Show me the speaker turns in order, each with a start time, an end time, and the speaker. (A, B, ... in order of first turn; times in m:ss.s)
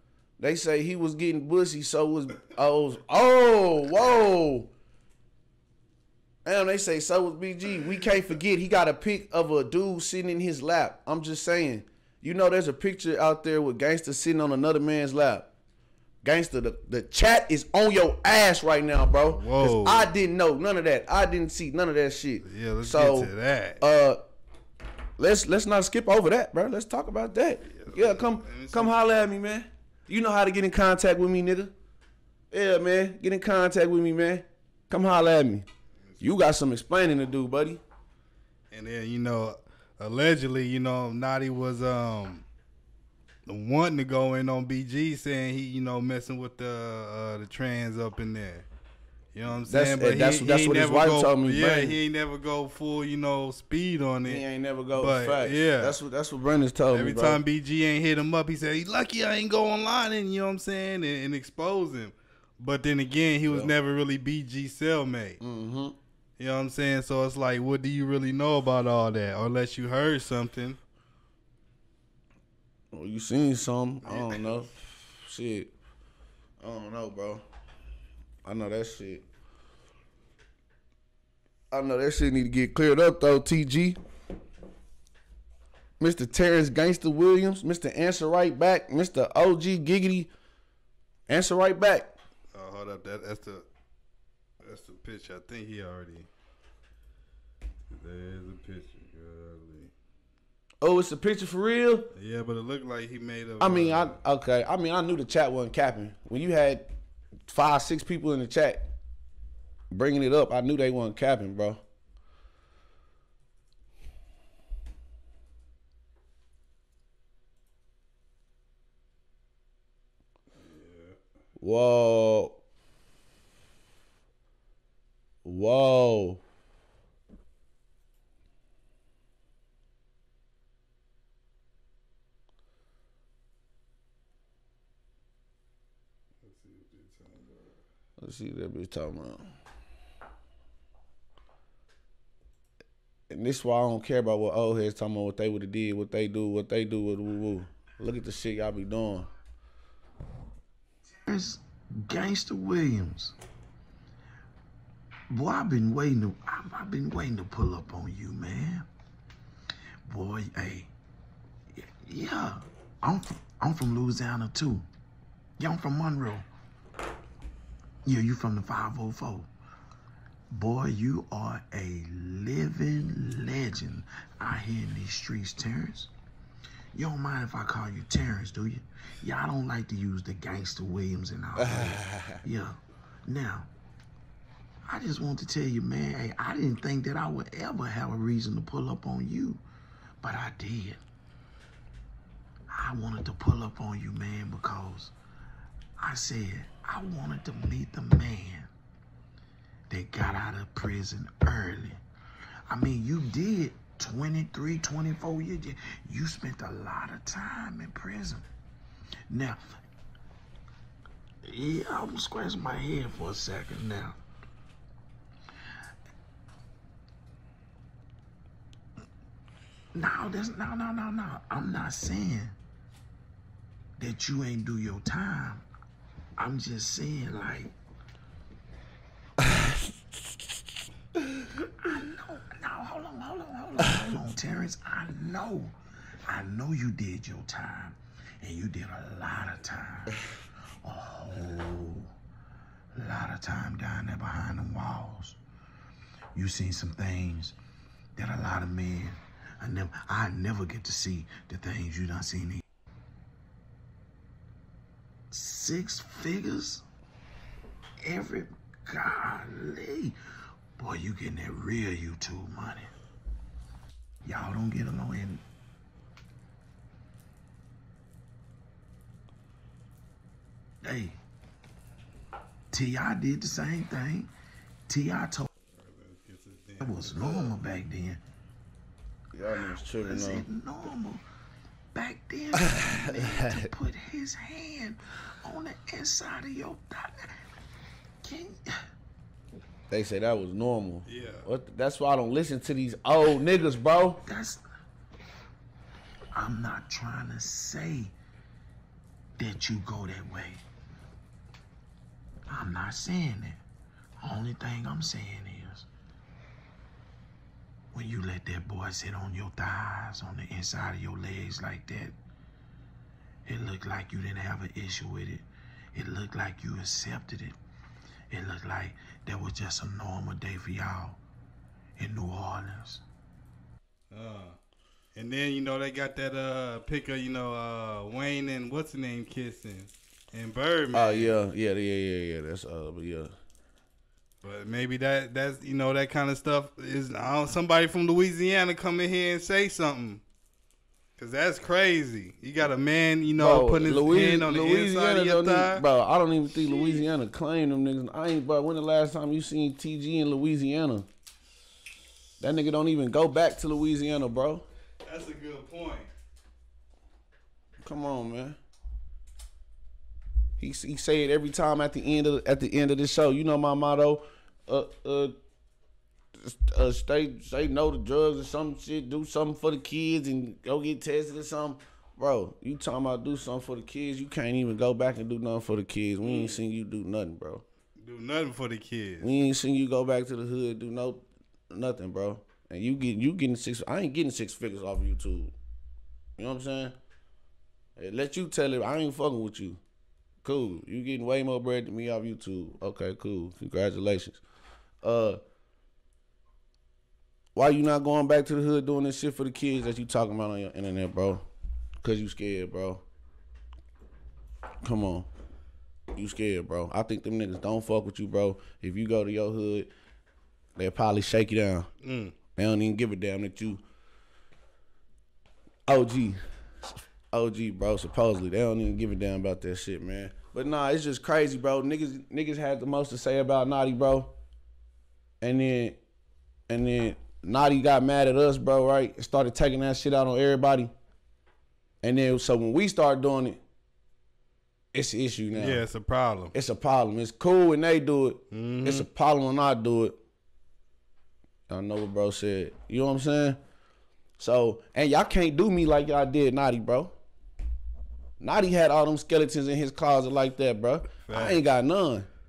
0:00.4-0:04.7 A
0:06.4-0:15.5 A
0:16.2-0:24.2 A
0:19.3-0:20.1 B
0:22.4-0:23.8 B
0:25.2-0:31.7 A
0:27.7-0:28.9 B
0:32.5-0:35.7 A
0:36.2-0:37.8 A
0:38.7-0:42.5 B
0:43.5-0:48.7 B
0:49.3-0:56.0 B
0:49.7-0:52.0 A
0:54.2-0:57.4 A
0:56.9-1:05.4 B
1:03.5-1:03.7 A
1:05.4-1:06.0 A
1:06.4-1:10.8 B
1:12.9-1:15.7 A
1:14.0-1:14.6 B
1:16.6-1:17.4 A
1:18.4-1:19.2 A
1:21.7-1:24.0 A
1:26.0-1:30.3 A
1:31.3-1:32.1 A
1:32.5-1:33.7 B
1:34.6-1:36.3 B
1:37.9-1:39.9 B
1:40.8-1:42.1 A
1:42.1-1:44.2 B
1:43.6-1:46.9 A
1:47.5-1:48.9 A
1:49.9-1:51.8 A
2:00.6-2:01.2 B
2:01.6-2:02.6 A
2:05.4-2:06.4 A
2:16.4-2:17.8 B
2:18.2-2:19.5 A
2:23.3-2:29.3 A
2:31.3-2:33.4 C
2:35.3-2:38.9 C
2:40.1-2:40.9 C
2:41.8-2:44.9 C
2:45.6-2:46.5 C
2:48.0-2:49.5 C
2:50.5-2:56.1 C
2:56.9-3:03.7 C
3:01.6-3:02.4 A
3:04.9-3:09.6 C
3:10.2-3:11.0 C
3:12.7-3:15.1 C
3:16.0-3:18.7 C
3:19.9-3:22.0 C
3:22.7-3:28.5 C
3:29.3-3:29.6 C
3:31.5-3:34.2 C
3:39.9-3:42.6 C
3:44.0-3:45.7 C
3:46.4-3:47.7 C
3:51.8-3:55.8 C
3:56.3-4:00.2 C
4:00.8-4:02.1 C
4:03.0-4:05.4 C
4:06.3-4:07.6 C
4:08.2-4:12.6 C
4:15.3-4:16.8 C
4:18.0-4:20.2 C
4:20.8-4:22.9 C
4:24.2-4:25.4 C
4:30.8-4:31.2 C
4:32.7-4:34.3 C
4:34.9-4:35.5 C
4:35.7-4:37.7 B
4:36.8-4:38.2 C
4:39.3-4:40.5 A
4:39.7-4:41.2 C
4:41.9-4:47.2 C
4:42.7-4:43.7 A
4:48.2-4:48.7 C
4:49.9-4:54.2 A
4:51.1-4:51.5 B
4:54.2-4:54.6 C
4:56.3-4:58.1 C
4:59.4-5:00.6 C
5:02.5-5:03.6 C
5:04.2-5:05.9 C
5:07.9-5:12.2 C
5:13.5-5:17.6 C
5:18.3-5:21.2 C
5:22.0-5:23.0 C
5:24.1-5:24.6 B
5:25.2-5:31.4 B
5:30.9-5:33.3 A
5:34.4-5:40.2 B
5:41.2-5:45.8 B
5:43.4-5:51.1 A
5:52.4-5:54.6 A
5:55.0-5:56.1 B
5:57.8-5:58.6 A
6:00.6-6:05.4 A
6:06.4-6:17.6 A
6:16.2-6:16.6 B
6:18.0-6:19.3 B
6:19.2-6:25.5 A
6:26.4-6:27.0 A
6:28.0-6:29.8 A
6:30.4-6:34.4 A
6:35.0-6:35.4 A
6:37.5-6:41.4 A
6:42.0-6:43.0 A
6:44.8-6:45.3 A
6:46.1-6:49.9 A
6:50.8-6:51.9 A
6:52.0-6:52.3 B
6:52.6-6:53.8 A
6:55.9-6:56.4 A
6:57.3-7:04.3 A
7:05.4-7:06.0 A
7:06.7-7:10.9 A
7:12.0-7:13.6 A
7:14.9-7:15.8 A
7:15.6-7:16.5 B
7:16.5-7:20.2 A
7:18.5-7:19.1 B
7:21.7-7:23.6 A
7:24.4-7:27.1 A
7:28.4-7:32.3 A
7:31.2-7:31.6 B